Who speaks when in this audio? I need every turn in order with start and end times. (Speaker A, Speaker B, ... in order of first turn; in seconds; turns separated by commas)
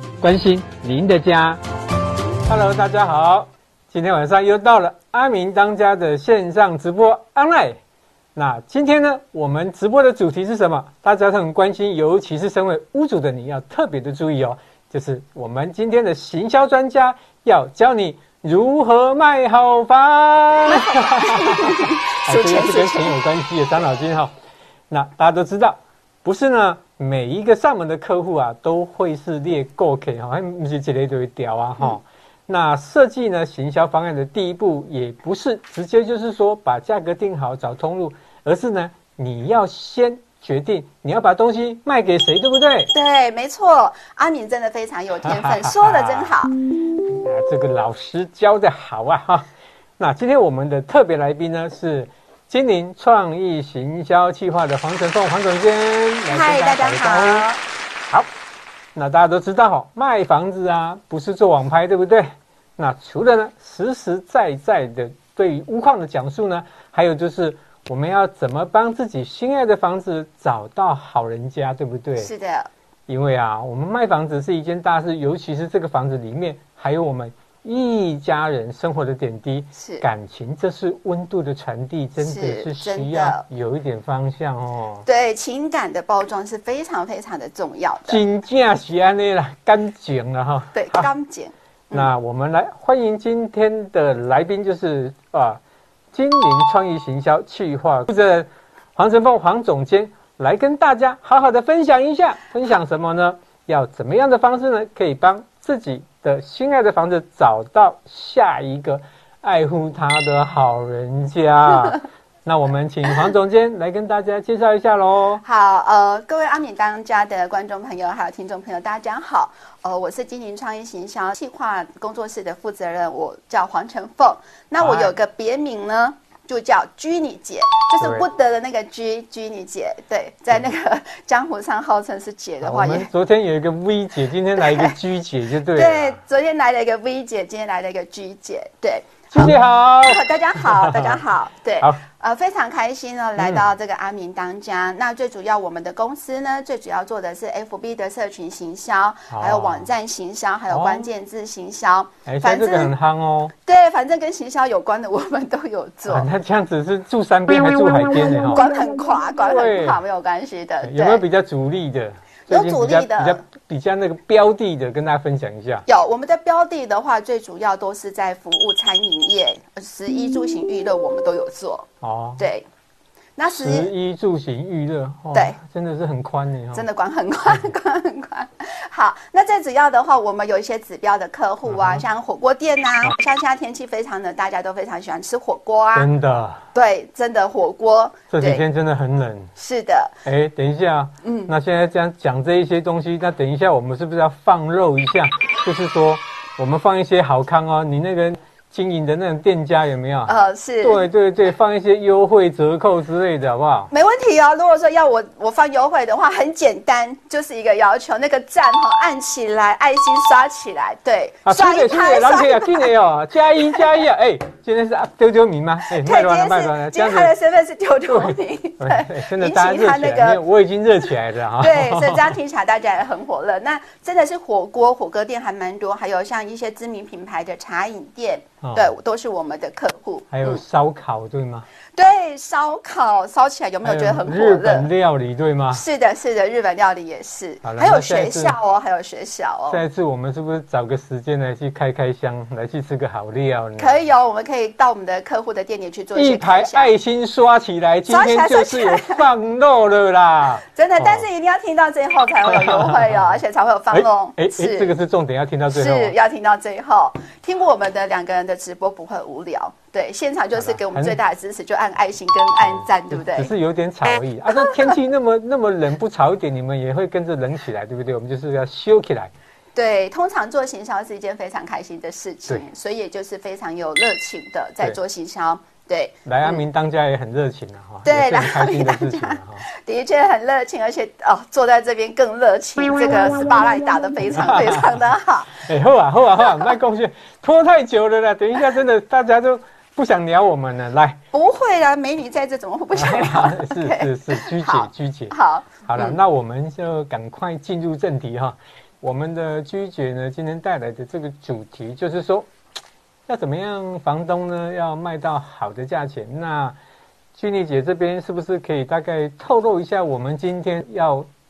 Speaker A: 0.2-1.6, Speaker A: 2.5-7.8, Speaker A: 8.4-24.3, Speaker B: 20.7-23.2, Speaker A: 24.9-42.9, Speaker B: 42.9-46.5, Speaker A: 45.2-46.4, Speaker A: 47.0-57.5, Speaker B: 56.3-57.6, Speaker A: 59.0-72.3, Speaker B: 72.2-72.7, Speaker A: 73.1-85.1, Speaker B: 79.8-80.0, Speaker B: 82.2-83.5, Speaker B: 85.1-88.2, Speaker A: 88.1-91.1, Speaker B: 90.7-92.1, Speaker A: 91.9-95.6, Speaker A: 96.1-115.4, Speaker B: 115.4-133.1, Speaker A: 124.8-125.1, Speaker A: 128.0-128.3, Speaker A: 132.6-136.2, Speaker B: 134.6-134.9, Speaker B: 135.7-152.9, Speaker A: 139.3-141.2, Speaker A: 143.4-143.7, Speaker A: 149.3-149.9, Speaker A: 150.7-151.1, Speaker A: 152.3-153.5, Speaker B: 153.7-156.3, Speaker A: 156.1-158.7, Speaker B: 158.4-161.2, Speaker A: 159.5-160.0, Speaker A: 160.8-165.9, Speaker B: 162.5-163.4, Speaker B: 165.9-172.7, Speaker A: 172.0-172.5, Speaker B: 173.4-173.9, Speaker A: 173.5-176.9, Speaker B: 176.7-186.1, Speaker A: 181.7-182.0, Speaker A: 185.9-186.7, Speaker B: 186.7-188.6, Speaker A: 188.3-189.5, Speaker B: 189.6-190.2, Speaker A: 190.2-203.9, Speaker B: 191.2-191.5, Speaker B: 200.3-201.1, Speaker B: 203.9-212.9, Speaker A: 211.4-217.3, Speaker B: 213.6-213.8, Speaker B: 215.9-220.4, Speaker A: 218.1-222.3, Speaker B: 221.0-230.6, Speaker A: 228.6-228.9, Speaker A: 230.3-231.7, Speaker B: 231.9-234.9, Speaker A: 233.8-235.8, Speaker B: 235.7-239.8, Speaker A: 237.6-238.6, Speaker A: 239.7-244.1, Speaker B: 243.8-246.9, Speaker A: 246.2-251.3, Speaker B: 248.1-249.2, Speaker B: 250.6-254.9, Speaker A: 252.5-253.4, Speaker A: 253.9-256.2, Speaker B: 255.7-263.5, Speaker A: 260.6-261.2, Speaker A: 262.7-269.3, Speaker B: 264.6-264.9, Speaker B: 269.8-276.6, Speaker A: 276.2-279.7, Speaker B: 278.1-285.6, Speaker A: 284.3-285.0, Speaker A: 285.5-291.2, Speaker B: 291.3-296.2, Speaker A: 292.9-302.5, Speaker A: 303.3-306.8, Speaker A: 307.4-311.3